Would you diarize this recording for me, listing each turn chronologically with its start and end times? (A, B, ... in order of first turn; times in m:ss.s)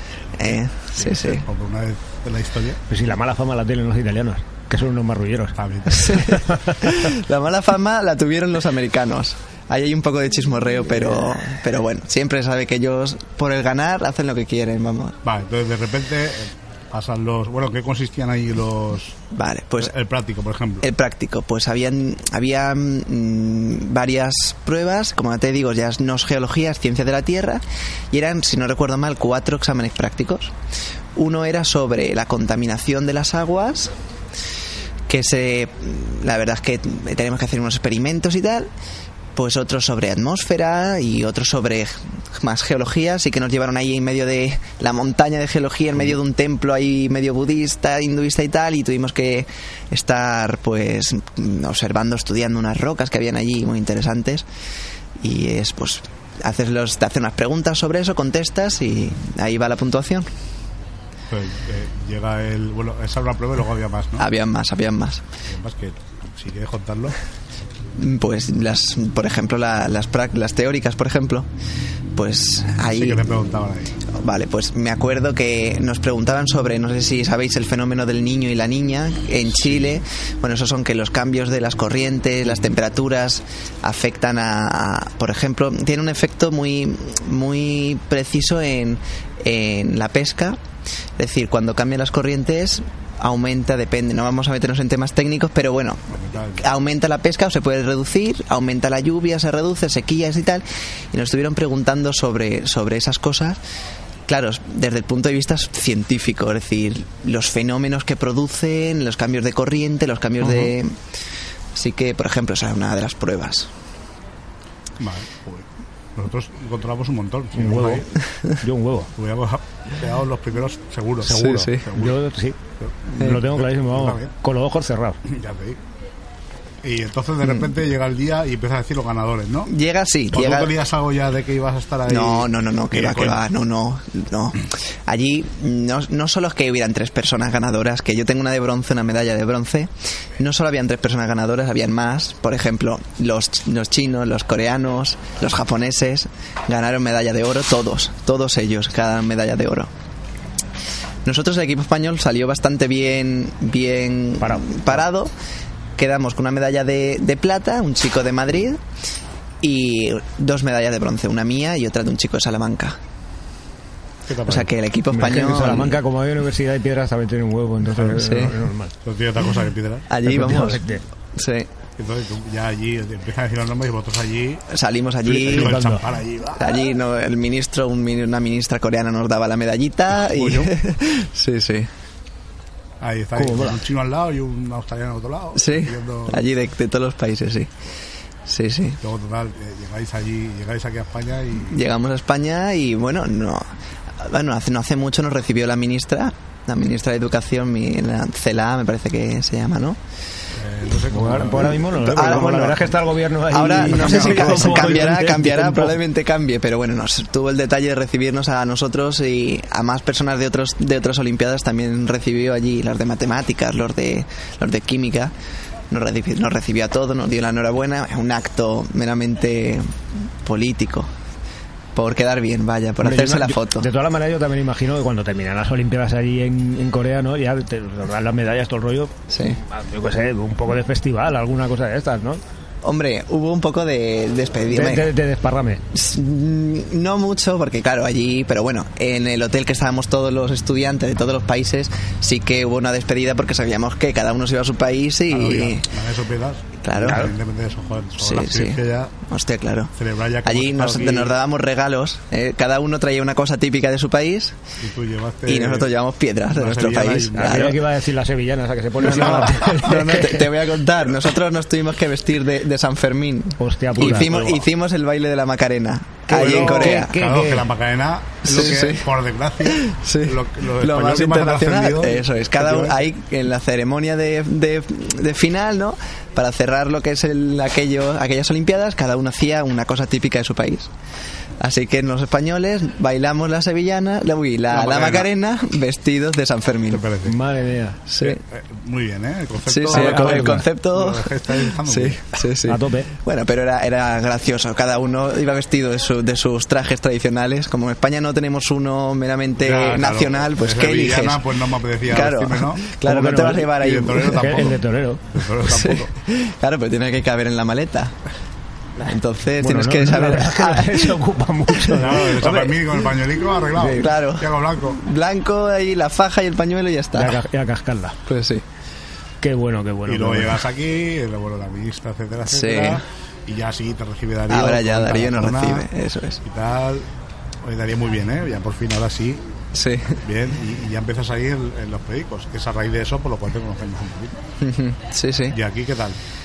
0:00.4-0:01.4 A
0:00.4-0:02.8 B
0:02.9-0:05.6 C
0:05.6-0:06.3 B
0:06.0-0:15.2 A
0:15.2-0:19.2 B
0:19.3-0:19.9 A
0:19.8-0:20.9 B
0:20.8-0:30.5 A
0:31.2-0:33.9 A
0:35.1-0:38.7 A
0:39.4-0:54.4 A
0:55.2-1:00.3 A
1:01.3-1:04.3 B
1:04.2-1:05.2 A
1:05.4-1:07.2 B
1:08.0-1:11.5 A
1:12.2-1:13.2 A
1:12.8-1:14.0 B
1:14.1-1:30.6 A
1:19.6-1:19.9 B
1:31.2-1:36.0 A
1:36.1-1:36.7 B
1:36.6-1:43.6 A
1:44.3-1:51.0 A
1:50.4-1:50.7 C
1:51.7-1:53.7 A
1:55.0-1:58.1 B
1:57.6-1:58.1 C
1:58.6-1:59.1 C
1:59.2-2:02.2 B
2:01.2-2:02.6 C
2:01.3-2:01.9 A
2:02.8-2:04.3 B
2:03.1-2:05.2 C
2:05.2-2:05.8 B
2:06.8-2:09.7 B
2:09.7-2:10.7 A
2:10.3-2:13.4 B
2:12.1-2:29.9 A
2:31.2-2:35.3 A
2:34.4-2:35.0 C
2:36.0-2:38.8 A
2:39.6-2:43.0 A
2:44.3-2:44.7 B
2:44.5-2:46.0 A
2:45.1-2:48.9 C
2:47.9-2:48.4 B
2:48.3-2:48.5 A
2:49.0-2:50.1 B
2:50.1-2:50.8 A
2:50.2-2:51.0 C
2:51.4-2:51.7 A
2:52.0-2:54.6 B
2:54.7-2:55.7 A
2:55.3-2:56.8 B
2:55.3-2:56.0 C
2:56.6-3:01.9 A
3:00.2-3:00.7 B
3:03.0-3:06.5 B
3:03.4-3:03.8 C
3:05.6-3:07.7 A
3:08.4-3:09.0 A
3:09.0-3:11.8 B
3:11.6-3:13.6 A
3:14.2-3:20.0 A
3:20.6-3:22.5 B
3:21.1-3:26.0 C
3:22.0-3:22.9 A
3:23.5-3:35.3 A
3:23.9-3:25.3 B
3:35.9-3:39.9 A
3:40.4-3:41.1 A
3:42.0-3:43.9 A
3:43.0-3:52.4 C
3:49.3-3:49.6 A
3:52.8-3:55.1 A
3:54.7-3:55.8 C
3:55.9-4:05.9 A
4:05.3-4:09.1 B
4:06.8-4:07.4 A
4:07.0-4:07.3 C
4:08.2-4:09.9 A
4:10.0-4:11.4 B
4:10.4-4:14.6 A
4:14.8-4:15.9 B
4:15.4-4:17.8 A
4:16.5-4:17.8 B
4:17.3-4:20.5 C
4:19.0-4:20.5 B
4:19.2-4:27.1 A
4:23.6-4:24.6 C
4:24.0-4:24.5 B
4:26.3-4:27.7 C
4:26.3-4:33.1 B
4:28.4-4:29.1 A
4:29.7-4:40.9 A
4:41.6-4:47.1 A
4:44.7-4:45.3 B
4:46.9-4:47.4 B
4:47.2-4:48.1 C
4:48.1-4:48.4 A
4:48.3-4:52.4 B
4:49.7-5:01.4 A
4:49.9-4:50.7 C
4:52.7-4:53.1 C
4:59.6-5:02.9 B
5:02.1-5:04.4 A
5:03.0-5:03.7 C
5:03.6-5:06.1 B
5:04.3-5:05.2 C
5:05.6-5:08.1 A
5:09.0-5:11.2 A
5:09.6-5:12.7 C
5:11.8-5:12.7 A
5:12.0-5:15.0 B
5:13.8-5:14.0 C
5:14.0-5:17.4 A
5:17.2-5:18.2 C
5:18.3-5:18.6 A
5:19.4-5:20.6 C
5:20.1-5:25.9 B
5:22.5-5:23.0 A
5:24.5-5:26.4 A
5:26.4-5:27.1 B
5:27.6-5:29.4 B
5:29.7-5:30.2 A
5:30.2-5:34.4 B
5:34.6-5:35.6 A
5:35.5-5:36.2 B